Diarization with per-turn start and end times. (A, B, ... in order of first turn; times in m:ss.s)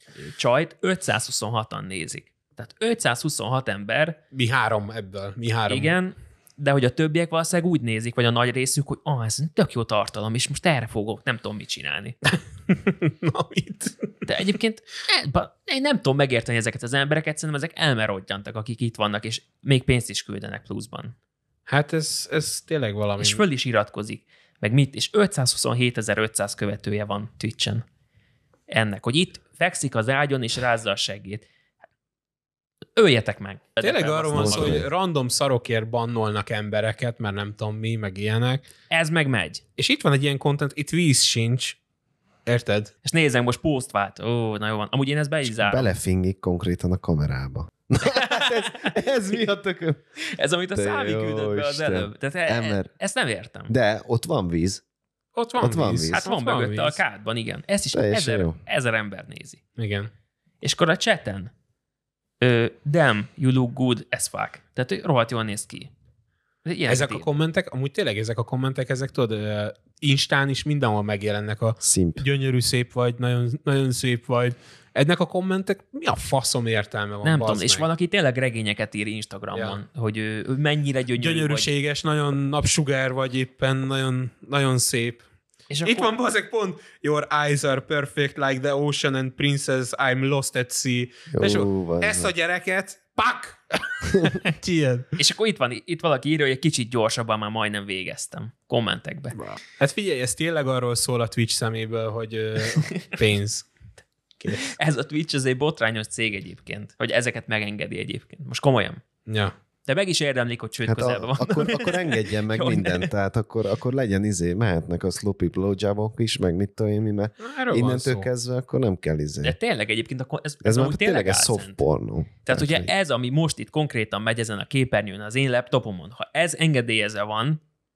0:00.2-0:04.2 A
0:04.3-0:05.9 B
0:05.7-0:12.2 A
0:12.3-0:14.2 B
0:14.2-0:21.1 A
0:21.7-0:23.4 B
0:23.2-0:27.8 A
0:28.7-0:31.4 A
0:33.0-0:34.8 A
0:33.8-0:38.6 B
0:34.3-0:34.8 C
0:38.9-0:39.6 A
0:39.8-0:41.8 B
0:42.4-0:42.9 B
0:43.0-0:45.9 A
0:45.4-0:50.0 C
0:48.0-0:49.0 A
0:50.3-0:53.7 A
0:50.7-0:52.9 C
0:53.7-0:54.8 C
0:55.4-0:57.0 B
0:55.6-0:56.2 C
0:56.1-0:59.6 A
0:57.9-0:58.6 C
0:59.8-1:00.1 B
1:00.6-1:01.5 A
1:02.4-1:05.9 A
1:06.6-1:07.2 A
1:06.9-1:17.8 B
1:11.8-1:12.2 C
1:17.2-1:21.7 A
1:19.5-1:19.8 B
1:21.2-1:25.2 B
1:25.7-1:26.1 A
1:25.8-1:35.1 B
1:31.3-1:32.3 C
1:35.2-1:39.4 A
1:39.4-1:43.7 B
1:44.4-1:44.7 B
1:44.5-1:49.0 A
1:49.3-1:49.5 B
1:49.8-1:53.1 A
1:50.8-1:59.5 C
1:57.4-1:58.3 B
1:59.4-2:01.8 A
2:00.6-2:02.9 C
2:02.4-2:07.6 A